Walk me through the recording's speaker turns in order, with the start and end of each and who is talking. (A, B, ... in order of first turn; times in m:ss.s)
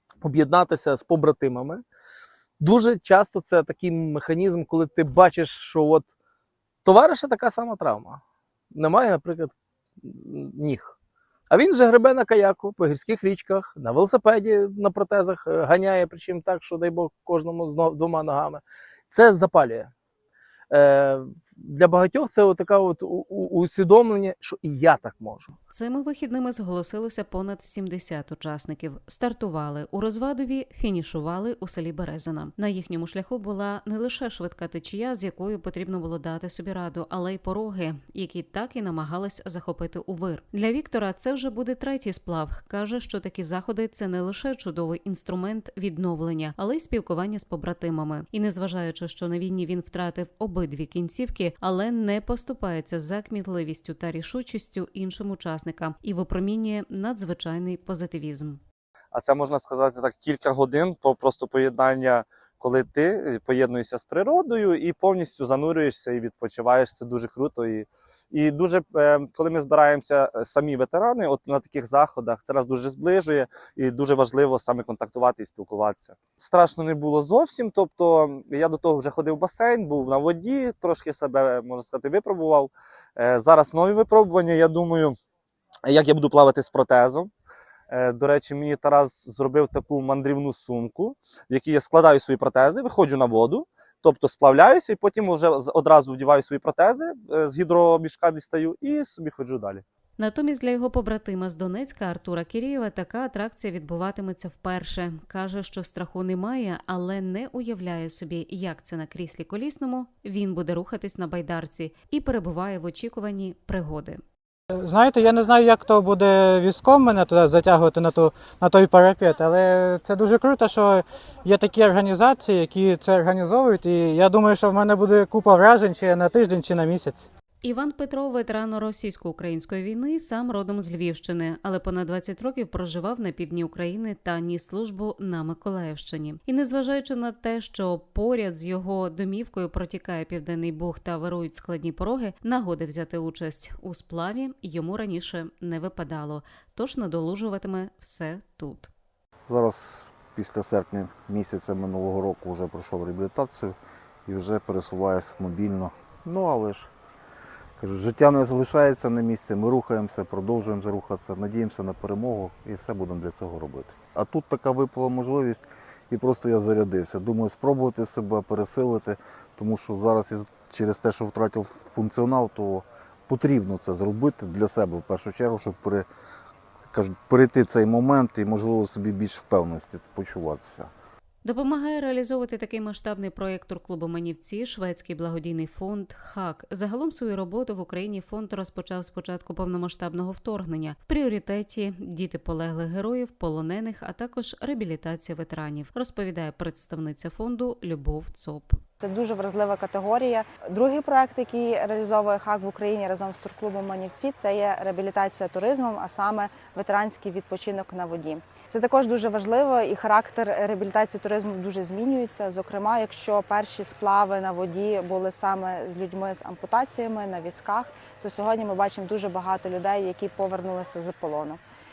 0:00.2-0:01.8 A
0:02.6-0:06.1 A
0:06.8-0:11.0 A
0:11.5-0:19.9 A
0:20.7-0:25.6 A
0:25.7-0:58.6 B
0:59.1-1:25.2 C
1:25.9-1:27.3 C
1:27.9-1:39.8 C
1:40.2-1:54.2 B
1:54.8-2:07.3 D
2:07.6-2:28.9 B
2:29.5-2:33.8 E
2:34.3-2:36.9 E
2:37.8-2:56.1 E
2:56.9-3:00.9 E
3:01.4-3:18.8 B
3:19.0-3:41.6 F